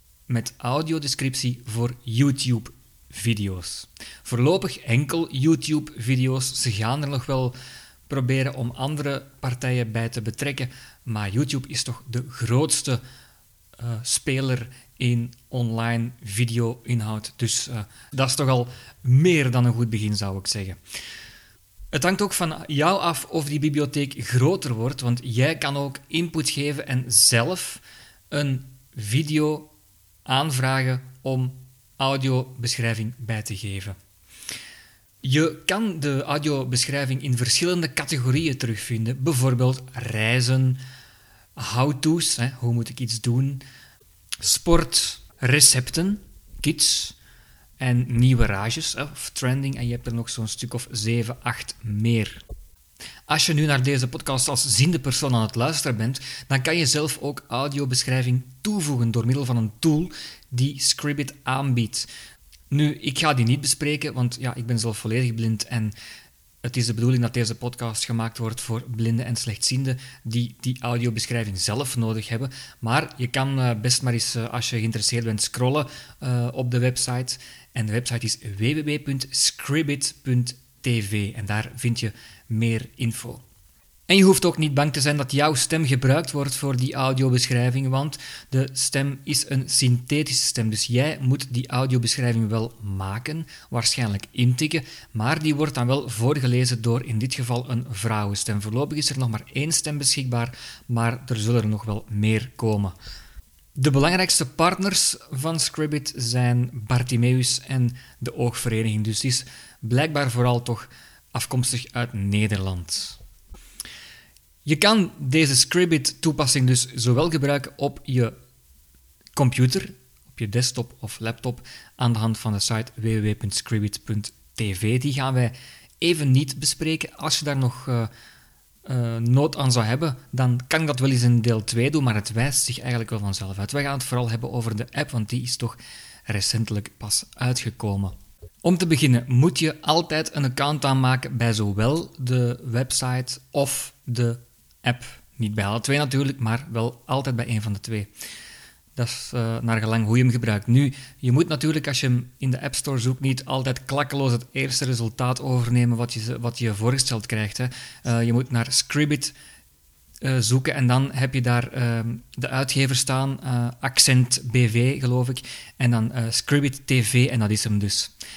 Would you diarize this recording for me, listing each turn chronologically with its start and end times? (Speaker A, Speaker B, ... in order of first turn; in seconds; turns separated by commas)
Speaker A: 0.3-7.5, Speaker A: 8.1-13.0, Speaker A: 13.8-20.8, Speaker A: 21.9-29.7, Speaker A: 30.2-34.0, Speaker A: 35.2-40.8, Speaker A: 41.6-43.6, Speaker A: 44.4-47.1, Speaker A: 47.8-52.4, Speaker A: 53.3-62.1, Speaker A: 62.7-65.9, Speaker A: 66.6-83.4, Speaker A: 84.1-103.0, Speaker A: 103.8-113.2, Speaker A: 114.6-118.3, Speaker A: 119.3-128.1, Speaker A: 128.8-148.1, Speaker A: 148.9-159.3, Speaker A: 160.2-168.1